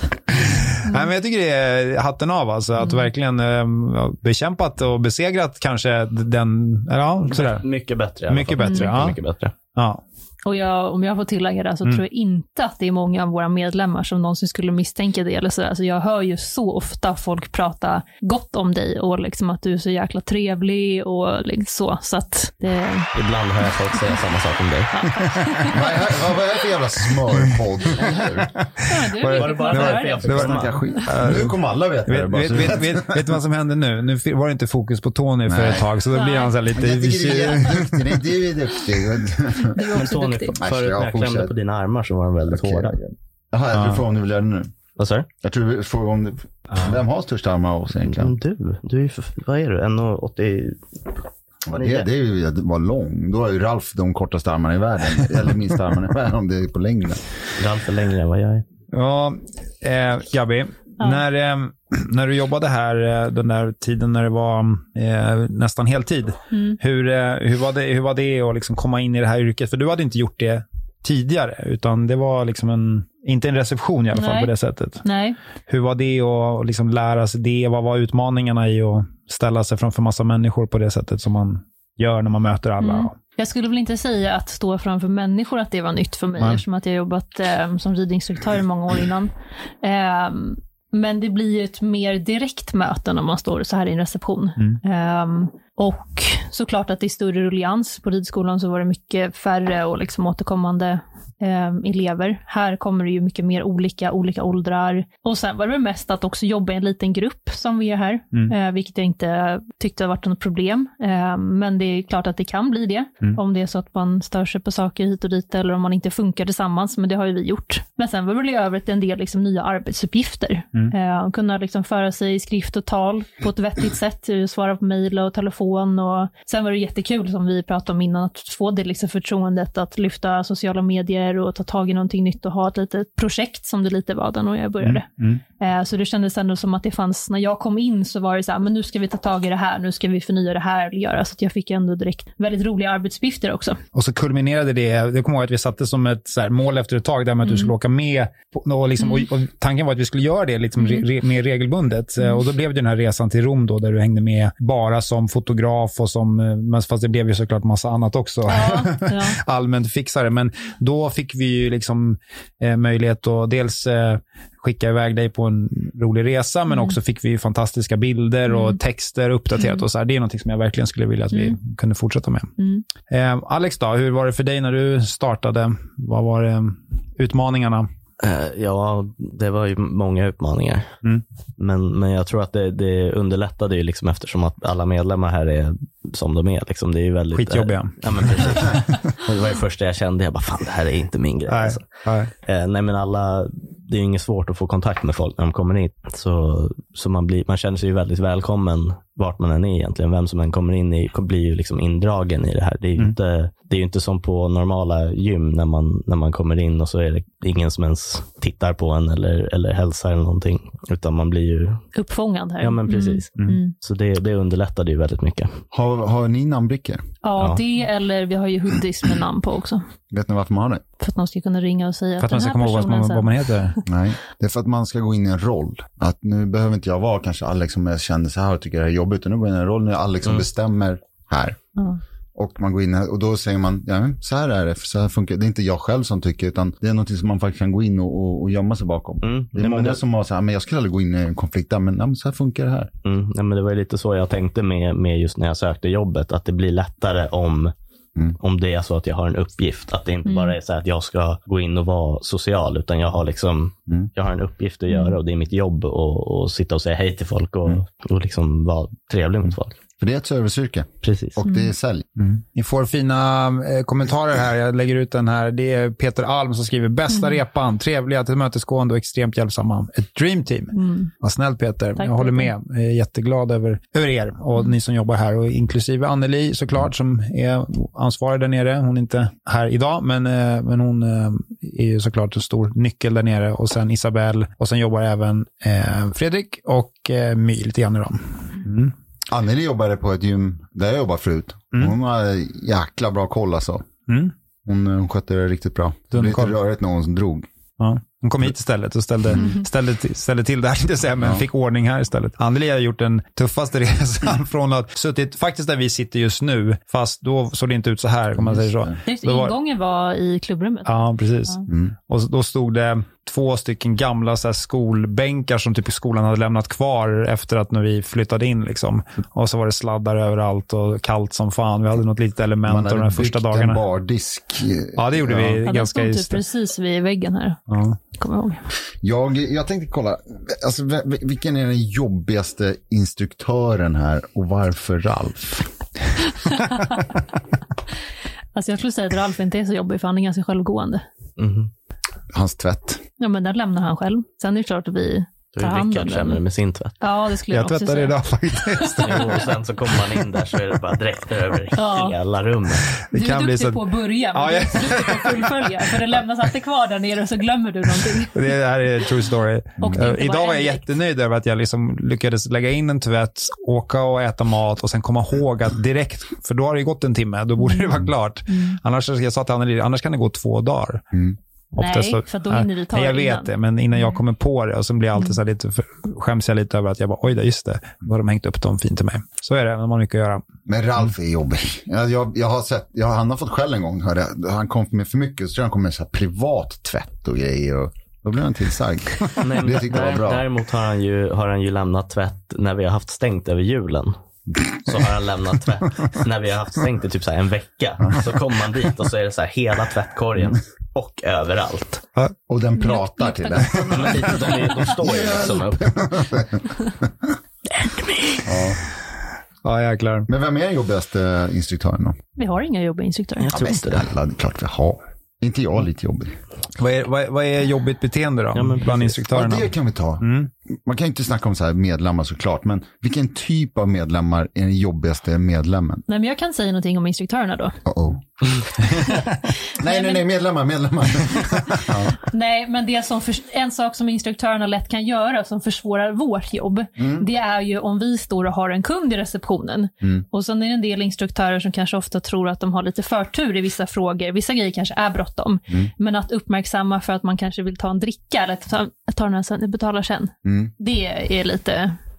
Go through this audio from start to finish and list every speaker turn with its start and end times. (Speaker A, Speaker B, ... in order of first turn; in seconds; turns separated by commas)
Speaker A: 0.3-7.7, Speaker B: 7.2-9.5, Speaker A: 8.3-9.2, Speaker C: 8.6-8.9, Speaker A: 9.7-10.0, Speaker C: 10.4-23.1, Speaker B: 23.1-24.9, Speaker C: 24.9-26.0, Speaker D: 25.7-28.5, Speaker A: 28.8-38.2, Speaker C: 28.8-31.0, Speaker B: 29.2-30.8, Speaker D: 30.3-33.4, Speaker D: 35.5-36.0, Speaker C: 36.1-36.6, Speaker D: 36.7-39.8, Speaker C: 39.5-40.6, Speaker B: 39.8-43.0, Speaker D: 40.6-41.5, Speaker D: 42.5-44.7, Speaker A: 43.7-44.0, Speaker B: 45.0-45.3, Speaker D: 45.4-48.3, Speaker B: 48.1-50.8, Speaker D: 51.7-57.2, Speaker B: 51.7-52.0, Speaker B: 57.6-58.6, Speaker A: 58.9-75.0, Speaker C: 66.5-66.8, Speaker C: 74.1-75.4, Speaker A: 75.7-83.1, Speaker C: 82.8-89.3, Speaker C: 89.8-135.1, Speaker A: 134.8-135.4, Speaker C: 135.6-143.8, Speaker A: 143.9-177.9, Speaker C: 147.4-147.7, Speaker C: 149.0-149.3, Speaker C: 150.8-151.1, Speaker C: 158.5-159.4, Speaker C: 166.7-166.9, Speaker C: 168.5-168.8, Speaker C: 169.6-169.8, Speaker C: 172.6-172.8, Speaker B: 178.2-180.9, Speaker B: 181.6-191.8, Speaker A: 187.3-189.0, Speaker A: 191.5-192.3, Speaker B: 192.4-211.8, Speaker C: 211.9-213.7, Speaker B: 212.6-215.6, Speaker D: 215.7-217.0, Speaker C: 217.2-219.8, Speaker D: 220.1-220.8, Speaker C: 221.0-223.5, Speaker A: 222.2-223.8, Speaker D: 223.8-231.6, Speaker D: 232.3-242.9, Speaker B: 239.2-240.0, Speaker B: 243.0-247.7, Speaker B: 248.4-259.8, Speaker C: 250.2-250.6, Speaker C: 254.9-255.2, Speaker D: 260.0-262.4, Speaker B: 261.0-261.4, Speaker C: 261.4-261.7, Speaker A: 262.5-288.9, Speaker C: 270.7-271.1, Speaker C: 272.0-272.5, Speaker D: 289.3-293.9, Speaker A: 294.1-294.3, Speaker D: 294.6-297.5, Speaker A: 296.1-296.5, Speaker A: 297.8-309.5, Speaker D: 301.2-301.4, Speaker D: 308.4-309.0, Speaker C: 309.1-310.9, Speaker A: 310.9-323.8, Speaker D: 311.7-311.9, Speaker D: 322.6-325.6, Speaker A: 324.9-326.4, Speaker C: 325.6-328.6, Speaker A: 327.7-328.0, Speaker D: 329.0-335.7, Speaker C: 336.4-337.0, Speaker C: 338.5-341.0, Speaker B: 341.4-341.7, Speaker D: 342.3-343.0, Speaker C: 343.2-346.4, Speaker B: 345.5-347.0, Speaker C: 347.0-348.2, Speaker A: 347.5-349.5, Speaker C: 348.8-349.1, Speaker B: 348.9-352.9, Speaker C: 351.8-352.1, Speaker A: 353.0-356.0, Speaker C: 353.1-358.4, Speaker A: 358.3-371.1, Speaker C: 359.8-360.8, Speaker C: 367.6-367.9, Speaker C: 368.5-368.8, Speaker A: 371.7-380.4, Speaker C: 371.8-374.2, Speaker D: 380.6-390.4, Speaker B: 389.4-394.1, Speaker B: 394.7-402.0, Speaker D: 402.5-406.6, Speaker C: 402.8-403.9, Speaker B: 403.8-406.2, Speaker B: 407.7-408.5, Speaker D: 408.4-408.8, Speaker A: 409.6-410.3, Speaker D: 410.3-412.2, Speaker C: 412.4-413.5, Speaker B: 413.4-414.1, Speaker D: 413.5-416.3, Speaker A: 416.8-420.5, Speaker B: 418.5-419.2, Speaker D: 419.3-426.0, Speaker C: 426.1-427.8, Speaker D: 427.8-428.8, Speaker C: 428.9-430.2, Speaker D: 429.7-432.1, Speaker C: 431.7-452.0, Speaker D: 437.0-437.2, Speaker D: 450.4-450.7